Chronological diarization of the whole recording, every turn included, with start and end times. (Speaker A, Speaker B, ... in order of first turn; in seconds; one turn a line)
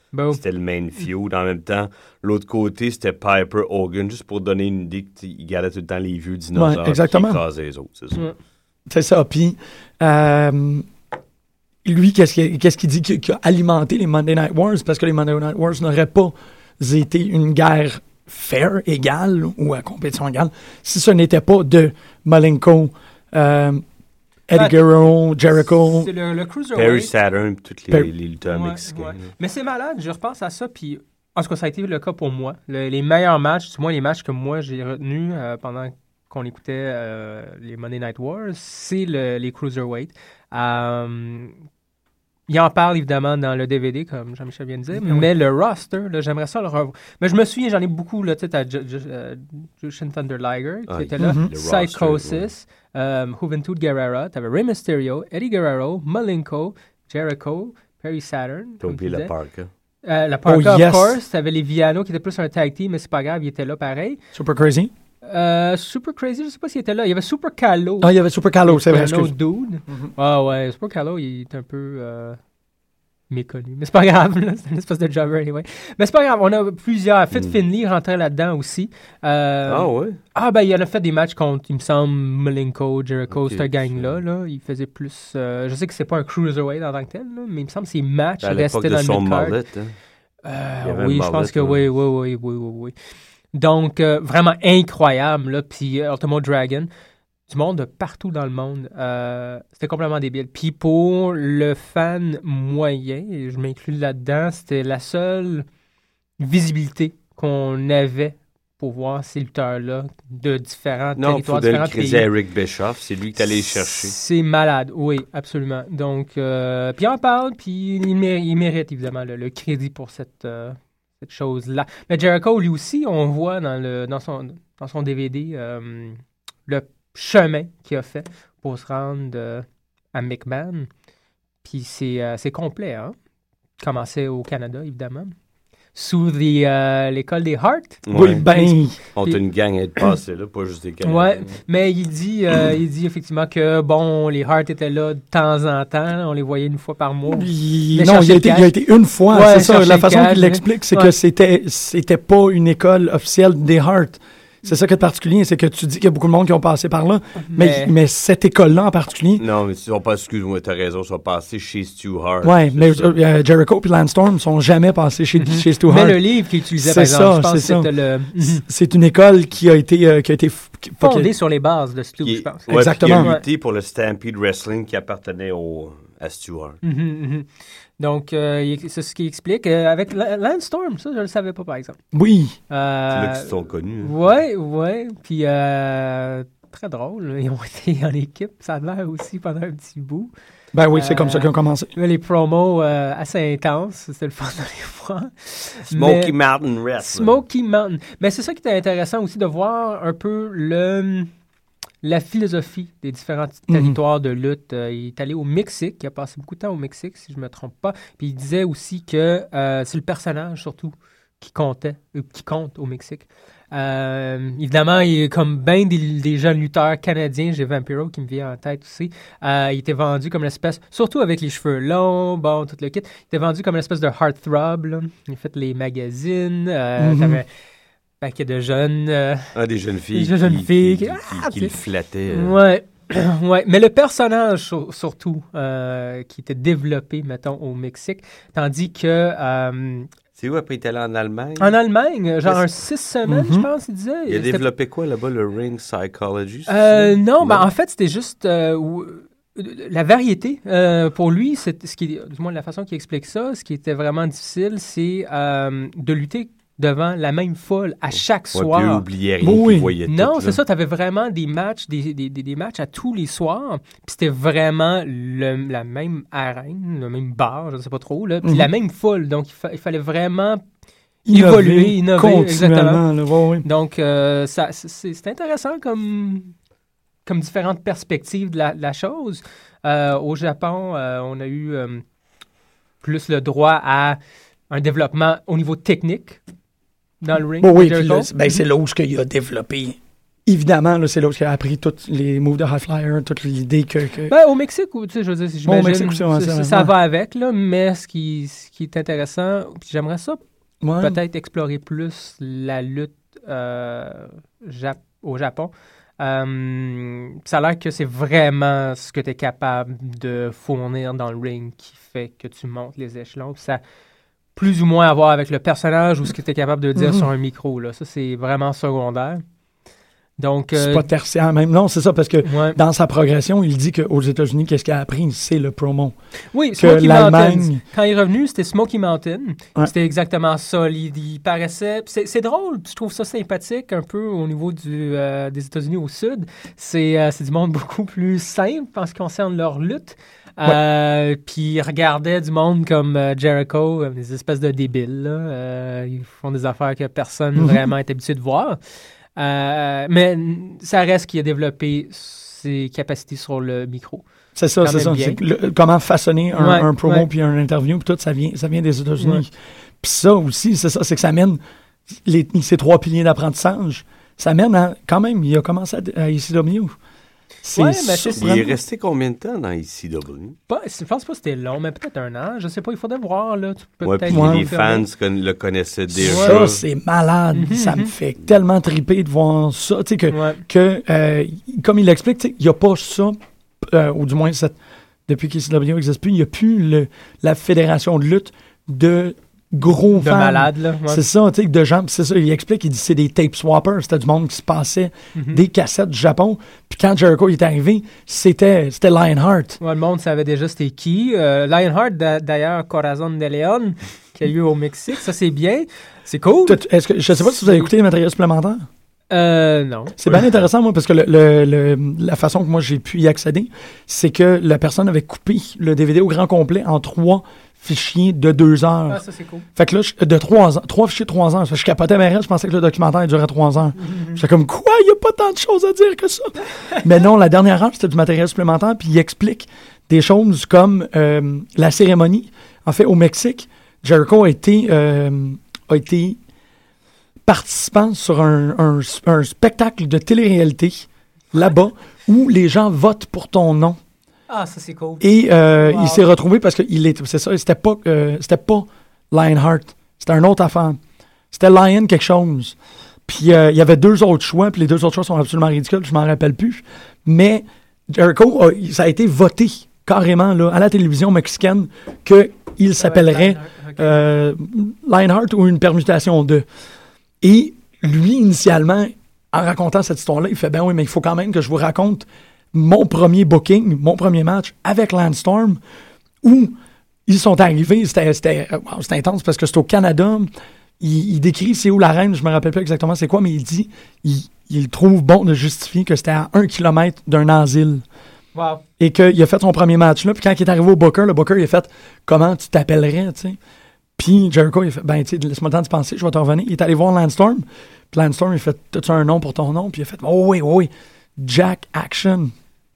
Speaker A: 0.1-0.4
Speaker B: 0.3-8.2
Speaker C: 6.5-7.4
Speaker C: 8.9-10.9
Speaker C: 11.8-23.8
Speaker C: 24.5-26.1
Speaker A: 24.5-24.8
Speaker A: 25.7-27.1
Speaker B: 26.7-29.3
Speaker A: 28.4-41.5
Speaker A: 42.5-59.3
Speaker C: 45.0-45.3
Speaker B: 50.9-52.5
Speaker C: 51.2-51.5
Speaker B: 58.8-59.7
Speaker A: 60.0-64.2
Speaker C: 60.5-61.2
Speaker C: 64.3-64.9
Speaker A: 65.2-68.1
Speaker C: 68.0-69.3
Speaker A: 68.7-72.4
Speaker A: 73.3-89.6
Speaker B: 77.3-77.6
Speaker B: 79.7-80.2
Speaker B: 83.3-84.2
Speaker B: 88.4-89.9
Speaker A: 90.4-92.9
Speaker B: 90.8-91.8
Speaker A: 93.5-96.9
Speaker A: 97.5-105.7
Speaker A: 106.4-112.3
Speaker B: 111.2-114.2
Speaker A: 113.8-130.9
Speaker A: 131.6-133.1
Speaker A: 133.8-135.3
Speaker A: 135.9-139.4
Speaker B: 138.1-138.5
Speaker C: 138.1-139.0
Speaker B: 139.1-141.6
Speaker A: 141.0-148.7
Speaker C: 147.3-159.4
Speaker A: 149.3-151.1
Speaker A: 157.4-157.9
Speaker B: 159.4-163.1
Speaker C: 162.4-166.2
Speaker A: 165.4-168.6
Speaker C: 166.8-167.9
Speaker C: 168.4-171.3
Speaker A: 171.0-173.4
Speaker B: 172.2-176.8
Speaker C: 172.7-173.3
Speaker A: 176.8-177.5
Speaker A: 178.0-182.0
Speaker C: 182.1-182.6
Speaker A: 182.7-190.3
Speaker B: 183.1-184.2
Speaker C: 190.7-191.9
Speaker A: 190.9-196.3
Speaker B: 195.9-197.4
Speaker A: 197.0-201.3
Speaker A: 202.0-227.5
Speaker C: 203.7-204.0
Speaker C: 227.0-227.4
Speaker A: 228.2-229.5
Speaker B: 229.5-232.6
Speaker A: 230.1-231.8
Speaker A: 232.3-240.1
Speaker B: 240.4-241.8
Speaker A: 241.6-244.6
Speaker B: 242.4-242.7
Speaker C: 243.3-243.7
Speaker B: 244.3-247.7
Speaker A: 246.7-259.0
Speaker B: 258.5-260.6
Speaker C: 259.4-259.9
Speaker A: 260.1-270.6
Speaker C: 268.4-268.7
Speaker C: 271.2-273.6
Speaker A: 271.3-273.0
Speaker A: 273.6-276.5
Speaker A: 277.2-282.0
Speaker A: 283.0-284.2
Speaker A: 284.7-286.4
Speaker A: 287.2-288.3
Speaker C: 287.6-294.3
Speaker A: 294.3-300.4
Speaker C: 295.6-296.9
Speaker C: 300.8-301.2
Speaker A: 301.0-313.8
Speaker A: 314.6-319.4
Speaker C: 316.9-317.3
Speaker A: 320.4-321.1
Speaker C: 320.7-326.1
Speaker A: 322.4-322.8
Speaker A: 326.5-348.8
Speaker C: 326.8-327.8
Speaker C: 347.6-347.9
Speaker A: 349.4-354.2
Speaker C: 354.6-359.5
Speaker A: 354.8-355.4
Speaker A: 356.5-357.3
Speaker C: 360.0-361.6
Speaker C: 362.2-366.9
Speaker C: 367.6-368.7
Speaker A: 367.7-368.7
Speaker B: 368.4-370.6
Speaker A: 370.7-375.1
Speaker B: 374.0-376.8
Speaker C: 374.3-374.7
Speaker C: 376.1-384.8
Speaker A: 376.2-376.6
Speaker A: 377.5-378.1
Speaker A: 380.3-380.6
Speaker C: 385.3-399.8
Speaker A: 390.1-391.2
Speaker A: 395.3-395.6
Speaker A: 399.8-407.9
Speaker C: 406.6-408.9
Speaker A: 409.3-410.1
Speaker C: 410.2-419.2
Speaker A: 419.1-419.6
Speaker C: 419.8-436.4
Speaker A: 424.0-424.4
Speaker C: 437.4-444.0
Speaker A: 444.5-446.3
Speaker C: 445.2-451.0
Speaker C: 451.5-452.8
Speaker C: 453.3-466.6
Speaker A: 462.9-464.3
Speaker C: 467.4-475.8
Speaker C: 476.4-476.8
Speaker C: 477.3-488.0
Speaker A: 488.5-488.8
Speaker C: 489.0-493.6
Speaker C: 494.2-502.5